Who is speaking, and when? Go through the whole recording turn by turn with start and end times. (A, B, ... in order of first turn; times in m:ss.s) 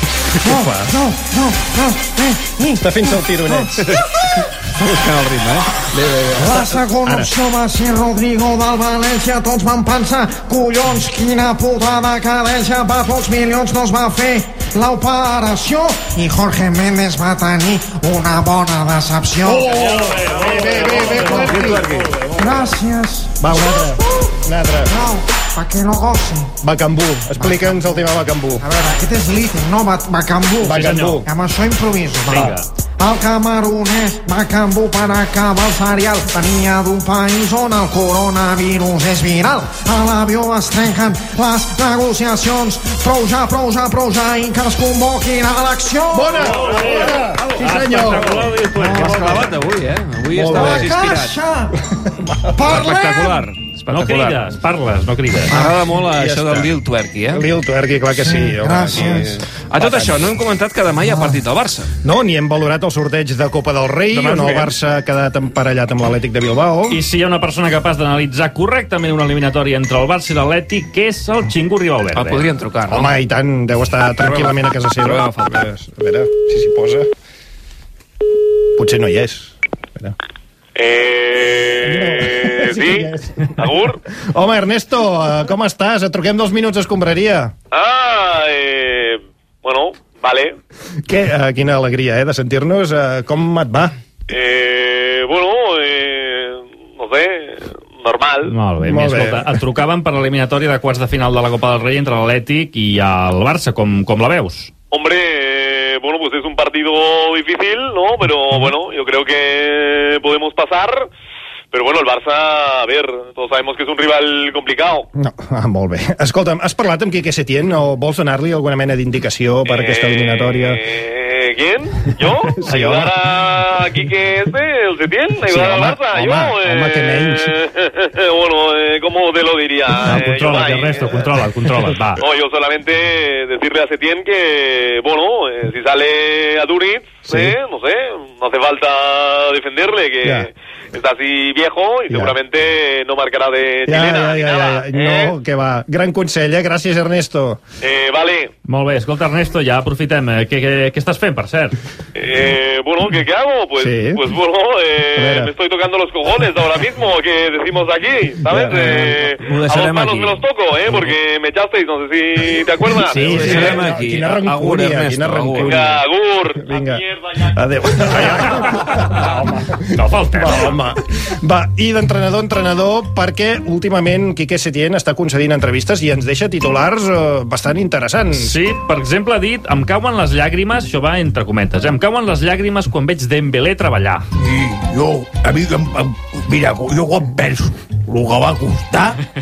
0:00.4-0:00.9 A
0:00.4-0:03.9 B
0:02.8-0:04.0 A
0:04.8-0:06.7 C
0:06.3-0:19.7 B
0:07.0-0:07.3 A
0:19.4-0:22.3 A
0:19.6-0:22.1 D
0:22.4-0:24.0 B
0:23.4-0:24.9 A
0:24.9-0:26.5 B
0:26.6-0:28.6 A
0:27.4-0:28.0 B
0:28.6-0:46.6 B
0:30.6-0:31.3 A
0:30.7-0:31.2 D
0:32.3-0:32.7 D
0:46.1-0:48.5 A
0:46.4-0:49.6 D
0:48.0-0:51.4 C
0:48.8-0:49.5 B
0:50.3-0:50.9 A
0:50.5-0:51.8 B
0:52.2-0:52.6 A
0:52.6-0:53.4 B
0:52.6-0:54.4 C
0:53.9-0:55.6 D
0:55.5-0:57.5 C
0:55.5-0:55.8 B
0:56.0-0:56.7 A
0:57.3-1:00.3 A
0:58.2-0:59.4 B
0:59.6-1:01.9 C
1:01.0-1:01.4 B
1:02.0-1:07.0 A
1:04.2-1:04.6 C
1:06.9-1:12.5 D
1:12.2-1:13.2 C
1:12.9-1:17.1 A
1:14.2-1:15.6 C
1:18.8-1:20.2 A
1:20.8-1:24.0 E
1:21.8-1:23.6 A
1:24.3-1:27.5 A
1:27.7-1:30.6 E
1:31.1-1:33.9 A
1:34.3-1:38.5 E
1:38.5-1:44.7 D
1:38.8-1:39.5 A
1:44.9-1:51.1 E
1:51.7-1:55.1 E
1:55.2-2:00.8 A
1:59.7-2:11.1 E
2:02.5-2:03.2 A
2:05.5-2:07.5 A
2:10.0-2:12.2 D
2:12.2-2:25.3 E
2:17.3-2:17.6 A
2:22.1-2:22.4 A
2:23.9-2:27.6 A
2:27.8-2:28.5 E
2:28.7-2:31.8 D
2:32.2-2:43.4 E
2:33.8-2:34.2 A
2:35.2-2:35.5 A
2:38.5-2:39.1 A
2:38.6-2:40.4 C
2:43.1-2:46.0 A
2:43.1-2:45.9 C
2:45.6-2:47.6 E
2:46.6-2:58.6 A
2:49.9-2:50.8 D
2:58.3-3:04.2 D
3:04.4-3:09.2 F